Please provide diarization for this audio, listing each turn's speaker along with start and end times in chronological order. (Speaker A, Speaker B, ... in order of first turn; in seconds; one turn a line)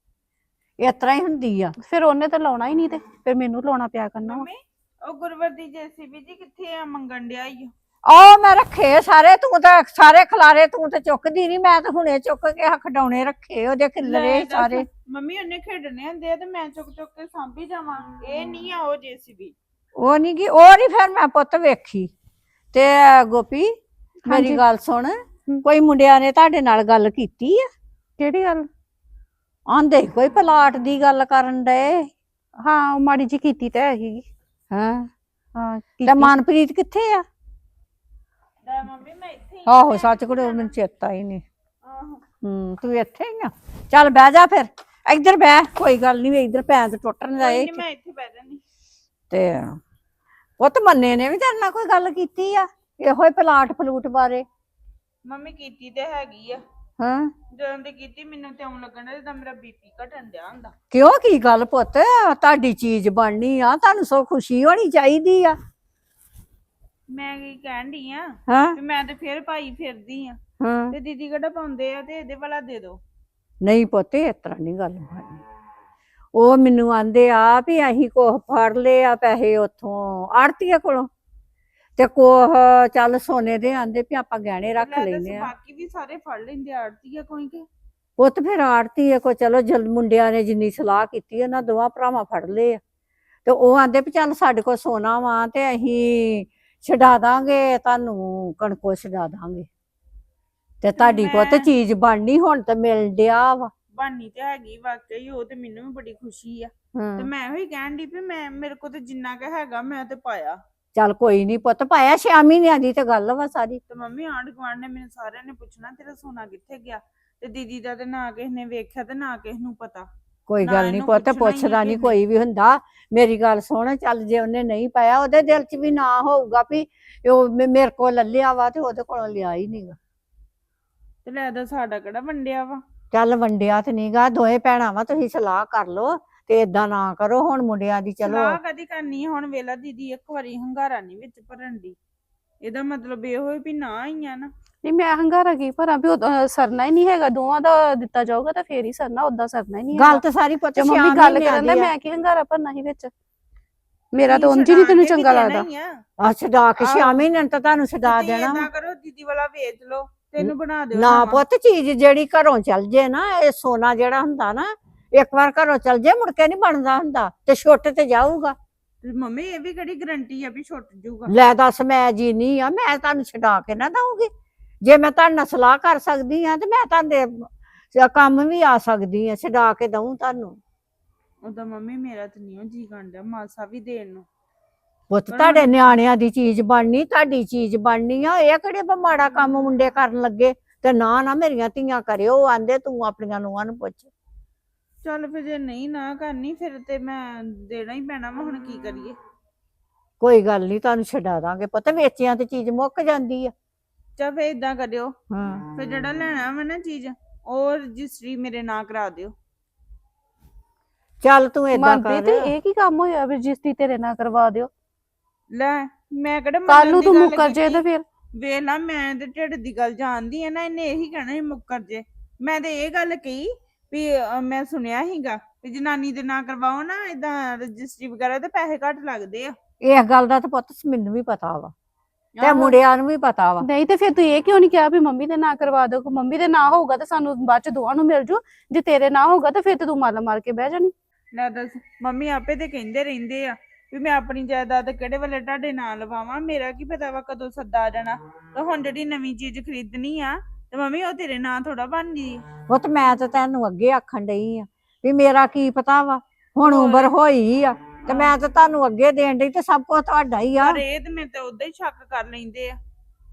Speaker A: 0.8-1.7
Speaker B: 1.8-4.5
Speaker C: 4.2-7.7
Speaker A: 8.1-14.8
Speaker C: 14.0-19.6
Speaker A: 20.0-22.1
Speaker A: 22.7-23.7
Speaker B: 24.3-24.6
Speaker A: 24.3-27.6
Speaker B: 28.2-28.7
Speaker A: 29.7-32.1
Speaker B: 32.6-34.3
Speaker A: 34.7-35.1
Speaker B: 35.6-36.3
Speaker A: 36.0-37.2
Speaker C: 38.6-40.8
Speaker A: 39.7-41.4
Speaker C: 41.8-42.2
Speaker A: 42.4-47.8
Speaker C: 47.4-48.6
Speaker A: 49.3-49.8
Speaker A: 50.6-54.5
Speaker C: 55.2-56.6
Speaker A: 57.0-57.3
Speaker C: 57.5-60.7
Speaker A: 60.9-65.5
Speaker C: 67.1-70.4
Speaker A: 68.5-68.8
Speaker A: 70.6-71.0
Speaker C: 70.9-73.0
Speaker A: 73.6-75.4
Speaker A: 76.3-81.1
Speaker A: 82.0-85.5
Speaker C: 84.8-87.7
Speaker A: 88.2-92.8
Speaker A: 93.5-99.7
Speaker A: 100.8-103.7
Speaker C: 101.0-101.7
Speaker C: 103.9-110.6
Speaker A: 107.0-107.3
Speaker A: 111.0-113.8
Speaker C: 113.9-120.1
Speaker A: 120.5-130.0
Speaker C: 120.6-122.2
Speaker C: 131.2-132.8
Speaker A: 133.1-138.6
Speaker C: 138.2-142.0
Speaker C: 142.6-144.5
Speaker B: 144.8-150.2
Speaker A: 149.9-151.9
Speaker B: 150.8-153.1
Speaker B: 154.1-155.7
Speaker C: 154.2-156.0
Speaker A: 156.2-158.7
Speaker B: 156.8-157.2
Speaker C: 158.1-161.4
Speaker A: 160.4-168.6
Speaker C: 169.0-171.3
Speaker A: 171.3-174.3
Speaker A: 174.8-180.6
Speaker C: 181.4-184.3
Speaker A: 185.1-194.1
Speaker C: 185.3-185.7
Speaker C: 195.0-199.2
Speaker A: 200.2-203.5
Speaker C: 204.2-205.2
Speaker A: 205.3-205.6
Speaker C: 205.7-209.3
Speaker A: 211.2-212.5
Speaker B: 211.7-214.7
Speaker C: 215.5-217.8
Speaker B: 216.7-218.0
Speaker C: 218.4-229.6
Speaker A: 229.8-231.7
Speaker C: 232.4-232.8
Speaker A: 232.4-233.7
Speaker B: 233.6-240.9
Speaker C: 241.3-252.5
Speaker A: 252.7-260.8
Speaker C: 256.6-257.1
Speaker C: 258.1-258.3
Speaker C: 260.6-262.8